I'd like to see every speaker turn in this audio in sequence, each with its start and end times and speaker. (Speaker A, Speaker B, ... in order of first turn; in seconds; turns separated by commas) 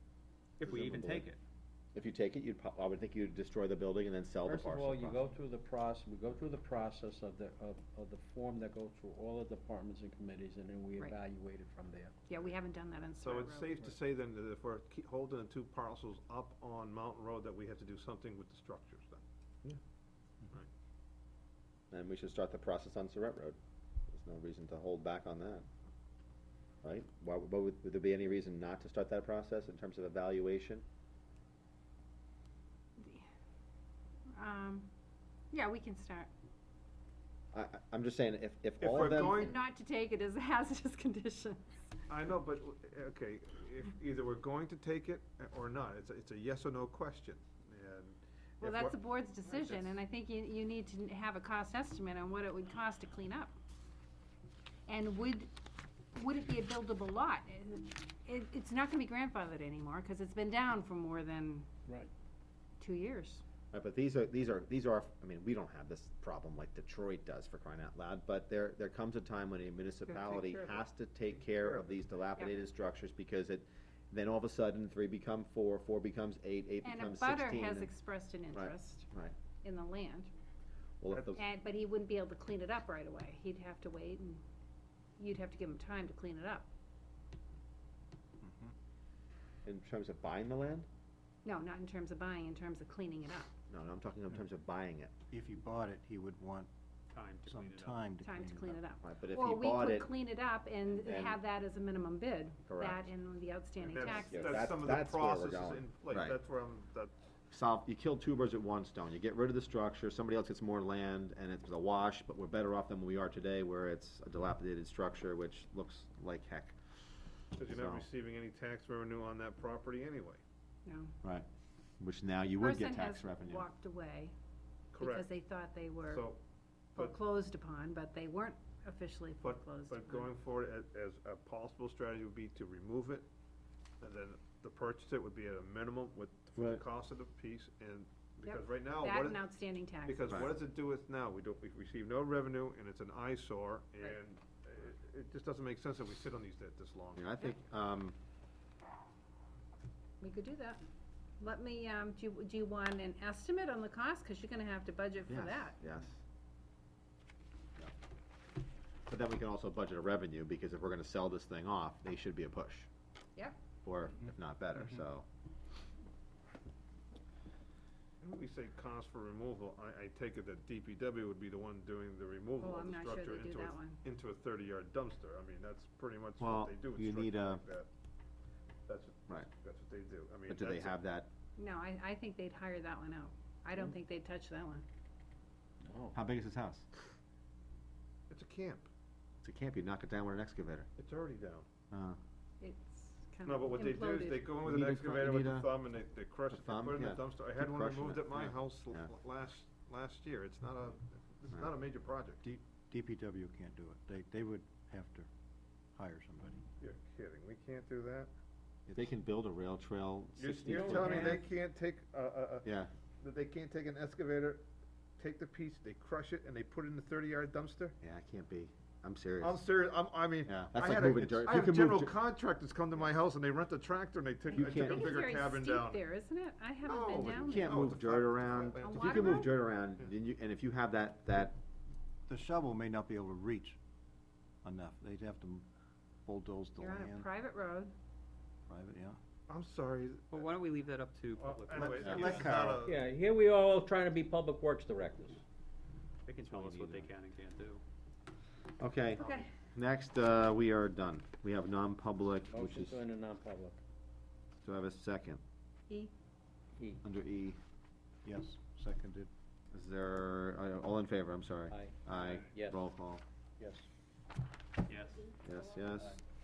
Speaker A: 0.6-1.4, Speaker B: 0.6-1.3, Speaker B: 1.9-5.2, Speaker C: 4.4-12.2, Speaker D: 12.3-13.8, Speaker E: 13.2-19.8, Speaker B: 21.9-23.6, Speaker B: 24.1-25.7, Speaker B: 26.8-30.8, Speaker D: 33.0-33.2, Speaker D: 34.4-34.9, Speaker D: 35.5-36.3, Speaker B: 37.5-39.5, Speaker E: 38.8-39.6, Speaker D: 39.0-41.9, Speaker E: 42.1-50.0, Speaker D: 48.6-53.5, Speaker D: 54.9-55.5, Speaker D: 56.1-61.7, Speaker D: 62.8-63.4, Speaker B: 63.7-77.9, Speaker D: 70.1-70.8, Speaker E: 71.4-72.0, Speaker D: 76.8-79.1, Speaker B: 78.5-79.3, Speaker D: 79.6-80.3, Speaker B: 81.0-81.4, Speaker E: 81.1-81.3, Speaker D: 81.3-84.4, Speaker D: 85.2-86.7, Speaker F: 88.4-88.7, Speaker B: 89.6-90.9, Speaker D: 91.4-93.5, Speaker B: 93.7-95.1, Speaker F: 95.3-96.7, Speaker A: 97.1-98.0, Speaker F: 97.4-98.8, Speaker D: 98.2-104.6, Speaker B: 99.0-100.1, Speaker B: 100.9-101.4, Speaker B: 102.7-103.1, Speaker E: 103.8-107.1, Speaker B: 104.1-106.4, Speaker B: 107.5-116.8, Speaker E: 117.5-120.4, Speaker B: 117.5-118.0, Speaker D: 120.8-121.1, Speaker B: 122.0-123.7, Speaker D: 122.6-124.3, Speaker E: 124.9-125.3, Speaker D: 125.0-126.2, Speaker E: 126.1-126.4, Speaker D: 126.9-130.3, Speaker E: 129.4-133.3, Speaker E: 134.0-139.4, Speaker B: 136.6-136.8, Speaker D: 138.4-140.3, Speaker E: 140.0-147.2, Speaker B: 140.3-140.5, Speaker B: 147.1-148.2, Speaker D: 150.2-150.8, Speaker D: 151.4-155.8, Speaker B: 155.3-156.2, Speaker B: 159.1-162.9, Speaker B: 163.8-165.2, Speaker E: 168.2-177.9, Speaker D: 172.6-174.0, Speaker B: 176.4-177.6, Speaker E: 178.9-181.0, Speaker B: 180.5-181.3, Speaker D: 181.6-184.8, Speaker C: 185.8-186.1, Speaker B: 186.1-186.9, Speaker E: 188.3-188.9, Speaker B: 189.4-190.9, Speaker E: 191.0-191.7, Speaker B: 191.9-192.2, Speaker D: 192.6-194.5, Speaker E: 193.4-202.4, Speaker B: 194.6-195.7, Speaker B: 196.5-199.1, Speaker F: 202.4-205.3, Speaker F: 205.9-206.6, Speaker E: 206.8-208.3, Speaker F: 208.9-209.1, Speaker B: 208.9-211.4, Speaker E: 210.4-214.6, Speaker C: 210.7-211.4, Speaker B: 212.6-212.9, Speaker E: 215.2-217.9, Speaker B: 218.0-219.6, Speaker E: 219.4-226.0, Speaker B: 220.4-222.1, Speaker D: 224.5-227.9, Speaker B: 224.5-225.1, Speaker E: 226.8-229.5, Speaker B: 227.4-231.6, Speaker D: 228.8-229.5, Speaker F: 232.3-233.8, Speaker F: 234.6-235.7, Speaker F: 236.2-237.3, Speaker D: 236.8-237.9, Speaker F: 238.7-239.2, Speaker E: 239.5-240.5, Speaker A: 240.3-242.4, Speaker E: 241.4-243.0, Speaker F: 241.8-242.8, Speaker B: 242.0-242.8, Speaker C: 242.8-245.4, Speaker A: 246.3-247.8, Speaker B: 246.5-247.1, Speaker B: 248.8-253.0, Speaker D: 249.2-249.5, Speaker C: 252.5-253.8, Speaker B: 254.6-255.4, Speaker C: 256.8-257.0, Speaker B: 257.0-257.6, Speaker F: 258.2-259.3, Speaker B: 259.7-263.2, Speaker C: 261.7-262.8, Speaker A: 262.1-262.5, Speaker F: 263.6-263.8, Speaker A: 264.9-265.3, Speaker D: 265.1-266.0, Speaker B: 265.4-266.2